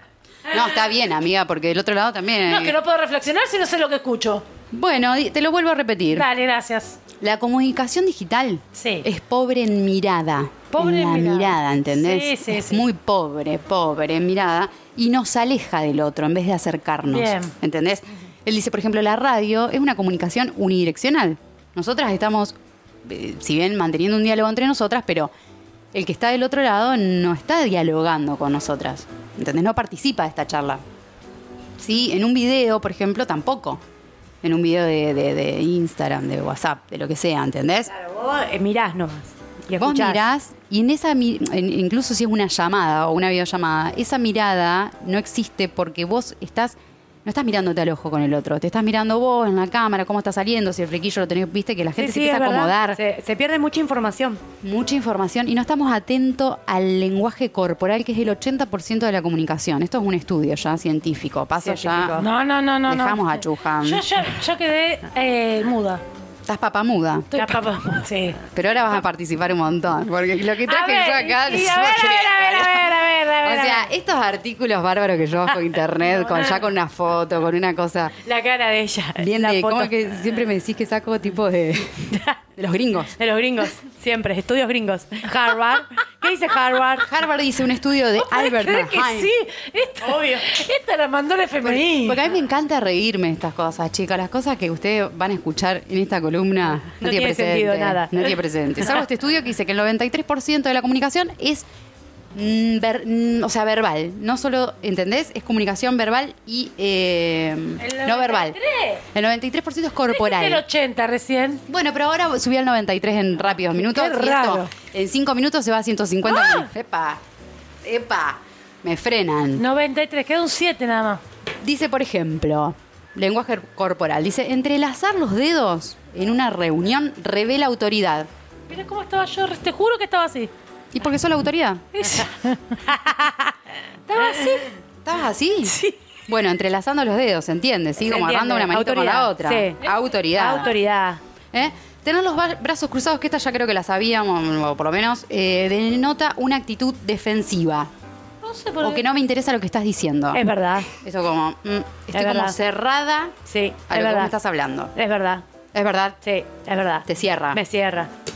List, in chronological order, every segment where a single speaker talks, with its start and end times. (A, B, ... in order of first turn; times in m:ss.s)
0:00.5-0:02.8 A
0:02.4-0:04.4 B
0:04.7-0:06.3 A
0:06.1-0:07.0 B
0:07.2-0:25.3 A
0:08.7-0:09.1 B
0:10.7-0:12.8 B
0:17.1-0:17.5 B
0:25.9-0:30.8 A
0:31.8-0:33.8 A
0:34.4-0:37.9 A
0:37.9-0:40.2 C
0:39.8-0:53.0 A
0:52.0-0:54.4 C
0:54.6-1:02.2 A
1:01.6-1:02.2 C
1:02.2-1:06.0 B
1:02.9-1:04.0 A
1:06.5-1:07.3 A
1:07.3-1:08.4 B
1:07.3-1:08.1 C
1:08.5-1:12.9 A
1:10.6-1:13.2 B
1:12.5-1:13.9 C
1:13.4-1:18.2 A
1:16.2-1:16.6 C
1:18.2-1:20.4 C
1:19.2-1:23.1 A
1:22.1-1:22.4 C
1:23.2-1:27.1 C
1:27.0-1:29.3 A
1:28.2-1:32.2 B
1:30.0-1:30.6 C
1:31.6-1:41.6 A
1:37.0-1:38.9 C
1:42.3-1:48.6 A
1:47.8-1:49.0 B
1:49.1-1:50.6 A
1:50.1-1:51.6 B
1:51.7-1:57.2 A
1:53.8-1:54.7 B
1:56.3-1:56.7 B
1:57.8-1:59.6 A
1:59.6-2:01.2 B
2:01.6-2:08.3 A
2:08.7-2:10.5 B
2:10.9-2:11.8 A
2:11.9-2:12.8 B
2:12.9-2:13.5 C
2:14.1-2:14.7 B
2:15.0-2:20.7 A
2:18.0-2:21.2 C
2:21.5-2:27.9 A
2:28.4-2:29.0 B
2:28.8-2:33.3 A
2:30.3-2:30.9 C
2:32.1-2:32.6 C
2:33.4-2:34.3 C
2:33.9-2:34.9 A
2:34.9-2:35.4 C
2:35.7-2:36.2 A
2:36.2-2:38.1 C
2:37.0-2:37.6 A